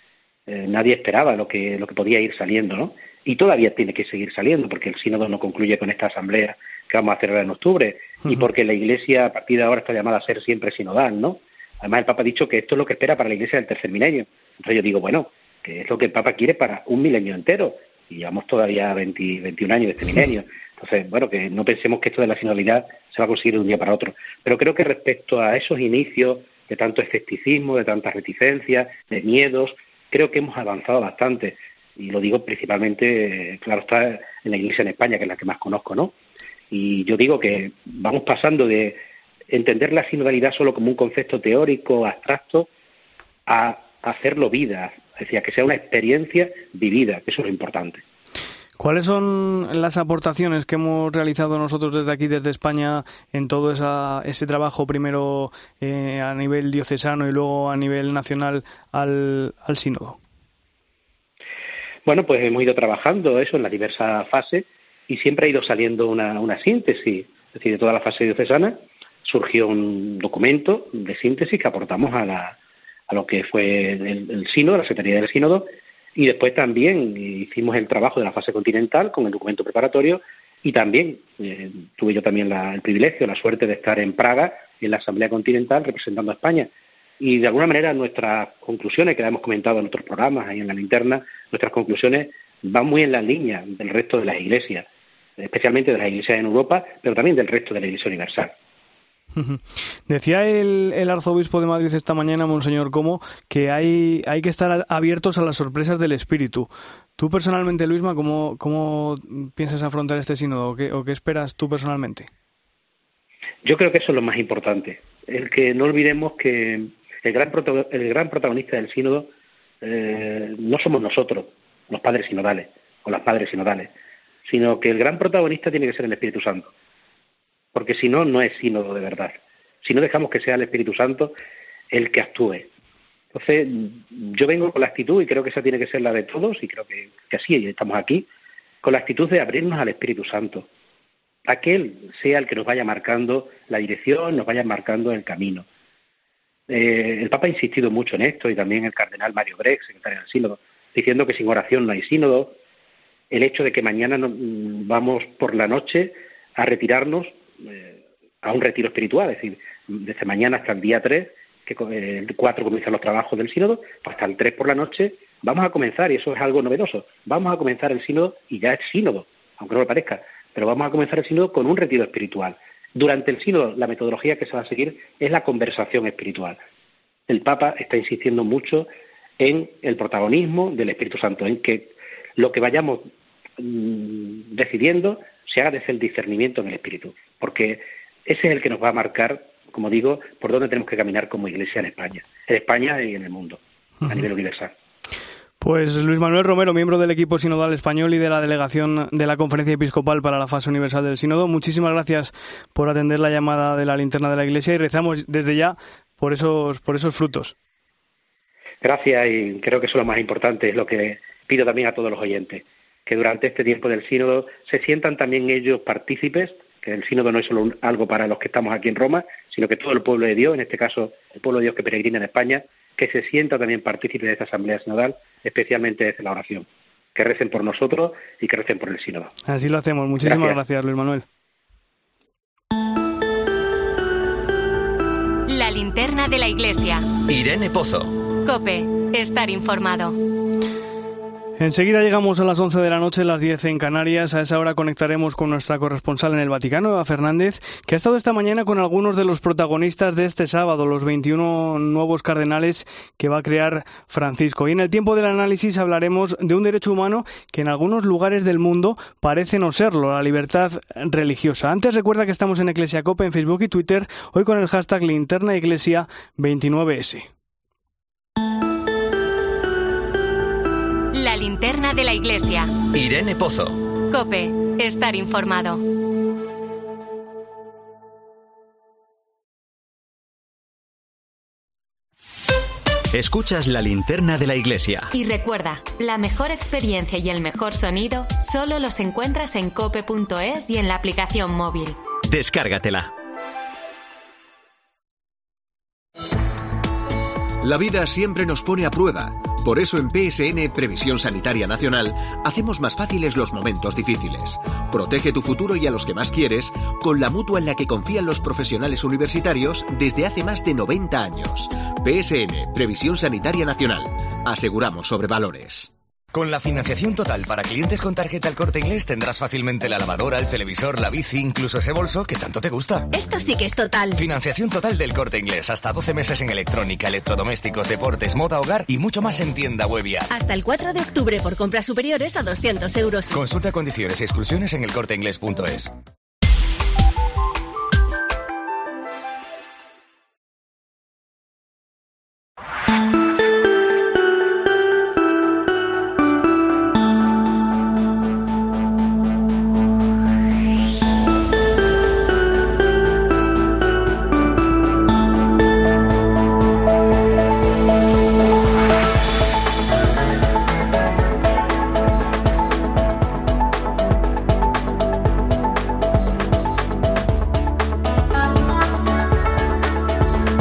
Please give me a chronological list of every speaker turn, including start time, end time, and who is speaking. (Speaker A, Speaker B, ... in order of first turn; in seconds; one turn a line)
Speaker A: 0.5-36.1
Speaker A: 36.7-42.7
Speaker A: 43.5-48.0
Speaker B: 48.8-60.2
Speaker A: 62.0-72.6
Speaker A: 73.1-94.9
Speaker A: 95.4-98.5
Speaker B: 99.4-112.3
Speaker A: 113.6-119.3
Speaker A: 119.8-123.9
Speaker A: 124.5-126.7
Speaker A: 127.7-131.3
Speaker A: 131.9-132.7
Speaker A: 133.3-138.3
Speaker A: 138.8-140.7
Speaker A: 141.5-145.7
Speaker A: 146.7-152.6
Speaker A: 153.3-176.6
Speaker A: 177.3-183.1
Speaker A: 183.6-194.7
Speaker B: 195.6-207.6
Speaker A: 208.8-229.3
Speaker B: 229.5-231.3
Speaker A: 230.2-230.6
Speaker C: 235.5-237.1
Speaker D: 237.3-238.2
Speaker C: 238.4-240.2
Speaker B: 241.6-267.3
Speaker C: 271.1-272.7
Speaker D: 272.9-273.9
Speaker C: 274.1-275.8
Speaker D: 283.1-285.1
Speaker C: 285.1-292.0
Speaker D: 292.2-293.1
Speaker E: 297.6-315.9
Speaker F: 316.3-323.1
Speaker G: 323.1-324.2
Speaker F: 324.2-330.3
Speaker G: 330.3-333.3
Speaker F: 333.3-335.9